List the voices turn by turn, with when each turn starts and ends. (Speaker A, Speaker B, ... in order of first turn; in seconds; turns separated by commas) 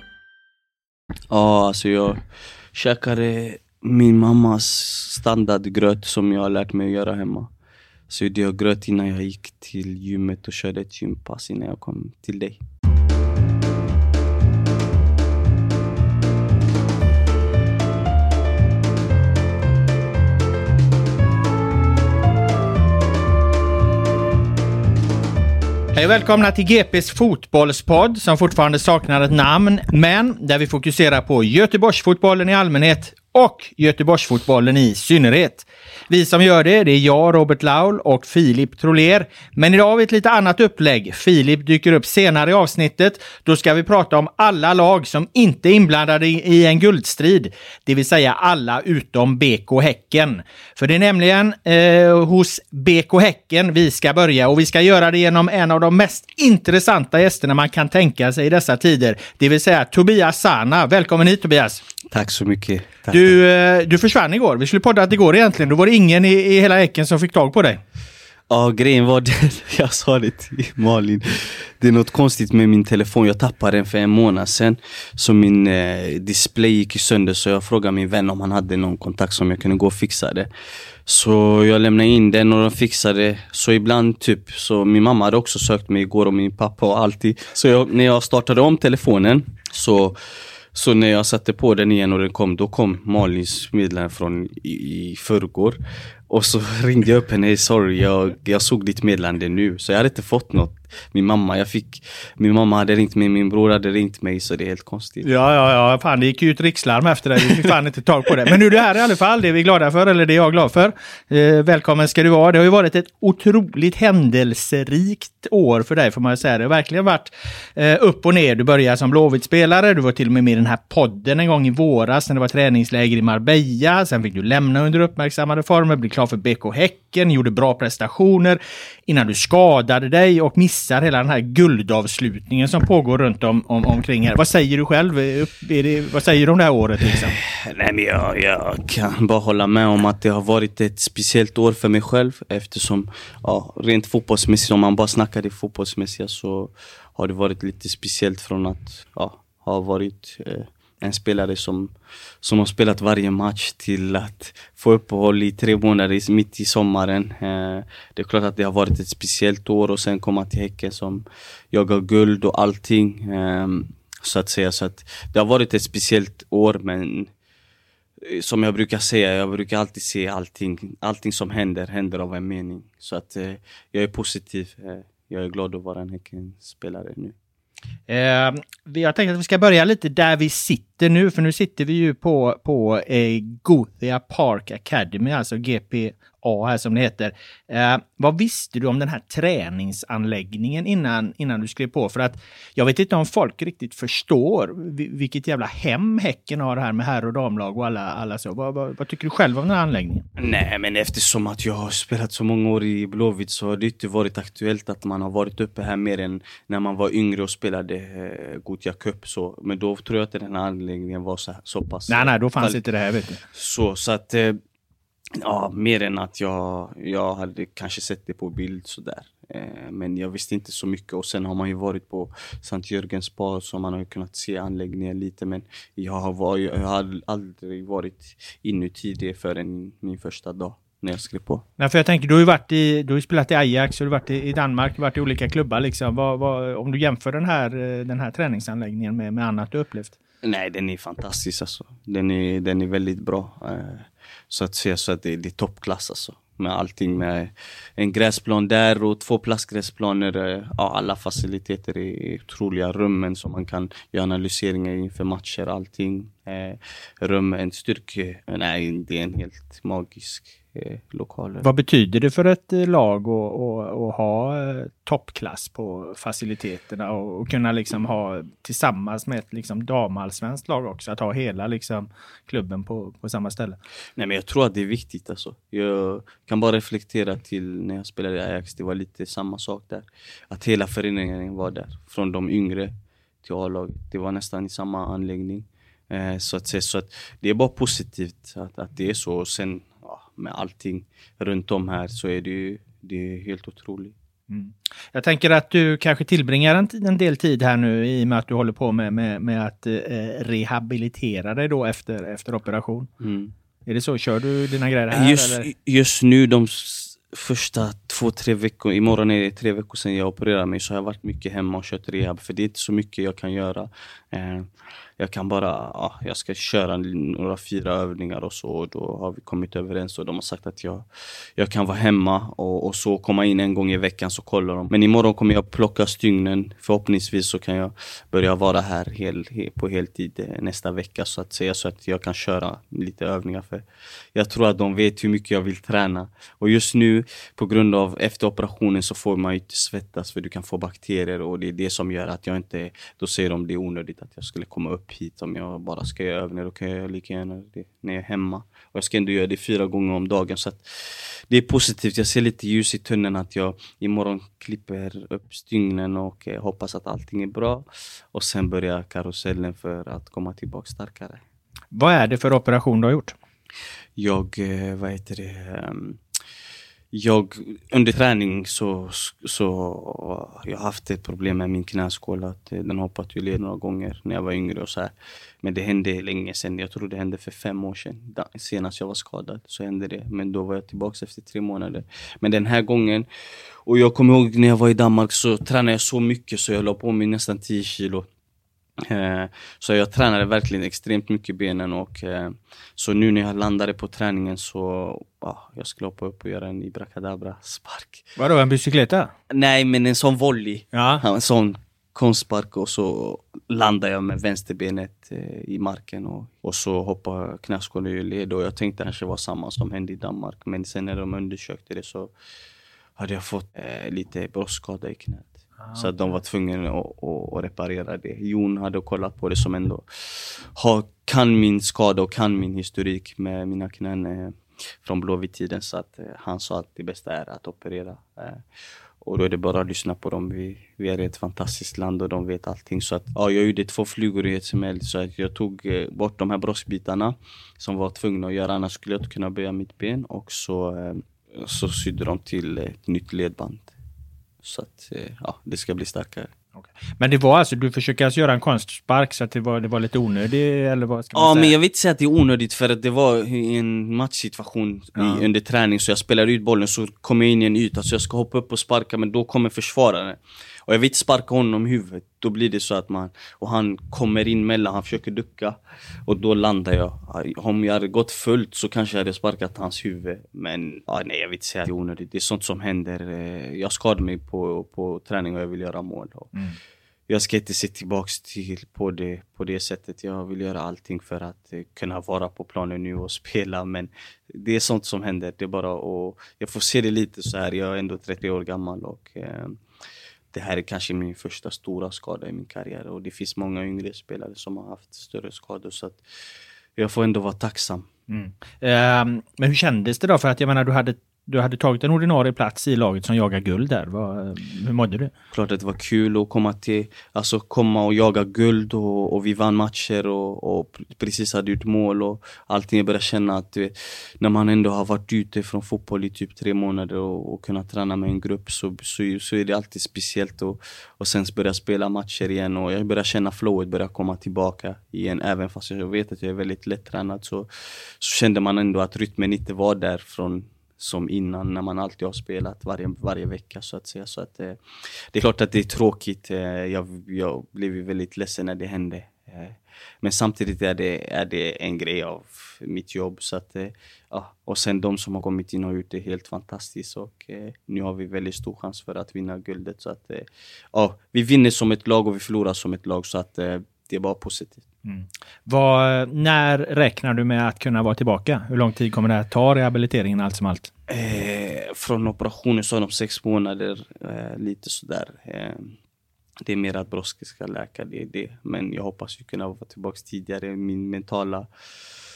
Speaker A: 1.3-7.5, Speaker A: 8.1-12.6, Speaker B: 25.9-61.8, Speaker A: 62.1-63.4, Speaker B: 63.1-67.8, Speaker A: 68.5-80.5, Speaker A: 81.0-90.2, Speaker A: 90.7-105.3, Speaker B: 105.2-137.4, Speaker A: 137.3-167.3, Speaker A: 168.2-177.3, Speaker B: 178.1-200.3, Speaker A: 200.3-212.8, Speaker B: 212.1-213.4, Speaker A: 213.5-214.6, Speaker A: 215.4-231.6, Speaker B: 231.8-240.2, Speaker A: 240.4-261.7, Speaker B: 261.6-273.8, Speaker A: 274.1-294.1, Speaker B: 294.5-303.1, Speaker A: 303.2-303.5, Speaker B: 303.9-305.7, Speaker A: 305.1-361.4, Speaker B: 361.9-363.4, Speaker A: 364.2-366.2, Speaker A: 367.1-383.3, Speaker A: 383.8-388.3, Speaker A: 389.0-398.3, Speaker B: 398.4-399.3, Speaker A: 399.5-412.3, Speaker B: 400.9-401.2, Speaker A: 413.2-428.6, Speaker B: 415.8-416.3, Speaker A: 429.2-443.9, Speaker A: 444.6-446.5, Speaker B: 446.7-451.7, Speaker A: 451.3-476.6, Speaker B: 455.1-455.4, Speaker A: 477.3-489.8, Speaker A: 490.5-496.2, Speaker A: 497.0-498.1, Speaker B: 498.3-505.3, Speaker A: 505.5-527.7, Speaker A: 528.2-534.8, Speaker A: 535.3-554.9, Speaker B: 555.0-560.9, Speaker A: 561.1-566.0, Speaker A: 566.6-571.7